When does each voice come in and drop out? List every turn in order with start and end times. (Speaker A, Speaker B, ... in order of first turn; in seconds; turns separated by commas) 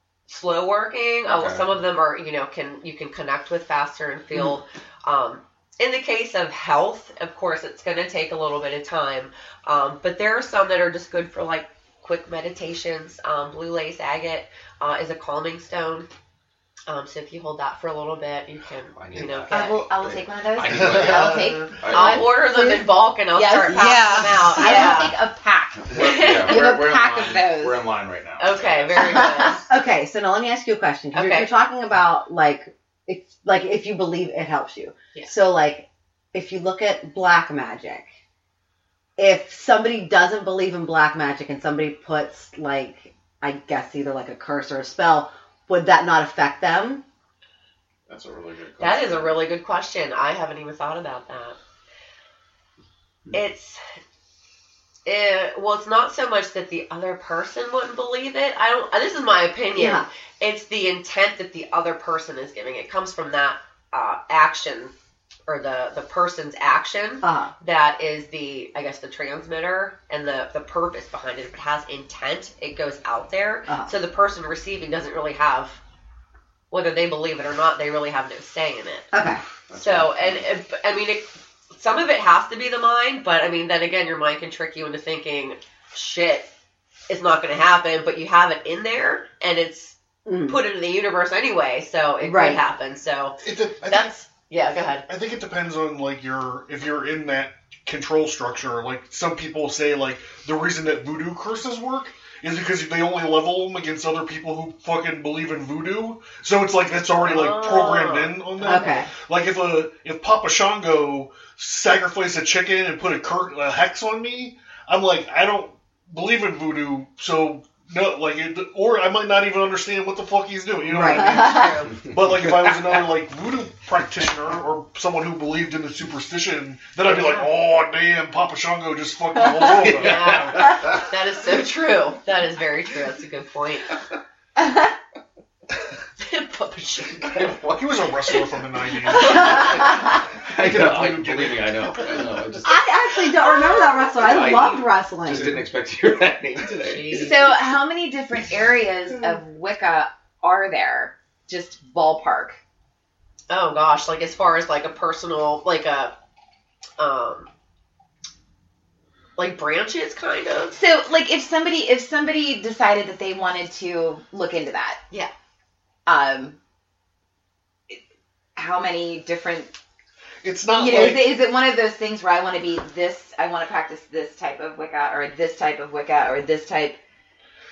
Speaker A: 0.3-16.1, Speaker B: 1.2-1.8, Speaker C: 4.3-4.6, Speaker A: 16.9-19.8, Speaker B: 18.9-22.4, Speaker D: 19.5-27.8, Speaker E: 20.6-21.7, Speaker A: 21.9-25.2, Speaker B: 25.9-29.5, Speaker A: 25.9-26.7, Speaker A: 28.4-29.6, Speaker C: 29.7-38.1, Speaker A: 31.1-31.5, Speaker C: 39.2-47.0, Speaker B: 48.1-49.4, Speaker A: 48.8-51.6, Speaker A: 53.3-53.8, Speaker A: 55.0-64.9, Speaker C: 59.8-60.0, Speaker A: 65.5-75.8, Speaker C: 67.2-67.5, Speaker C: 73.7-73.9, Speaker A: 76.7-79.1, Speaker C: 79.1-79.4, Speaker B: 79.7-80.5, Speaker A: 79.7-86.5, Speaker A: 87.1-90.0, Speaker C: 90.2-90.6, Speaker A: 90.5-95.0, Speaker C: 92.2-92.6, Speaker E: 93.4-94.1, Speaker E: 95.1-130.7, Speaker A: 107.2-108.9, Speaker C: 108.6-109.1, Speaker C: 120.9-121.7, Speaker A: 121.1-122.0, Speaker B: 122.1-122.9, Speaker A: 127.1-127.5, Speaker B: 129.8-131.0, Speaker A: 129.8-134.0, Speaker A: 136.2-137.5, Speaker B: 137.3-137.9, Speaker E: 137.6-142.6, Speaker A: 139.0-139.7, Speaker B: 139.4-142.8, Speaker C: 142.6-145.6, Speaker B: 144.2-147.3, Speaker A: 146.8-147.5, Speaker D: 147.1-152.6, Speaker A: 153.5-156.1, Speaker A: 157.0-157.5, Speaker A: 159.4-160.8, Speaker D: 160.7-165.0, Speaker D: 166.1-166.6, Speaker D: 168.5-169.7, Speaker E: 170.4-171.5, Speaker D: 170.7-177.0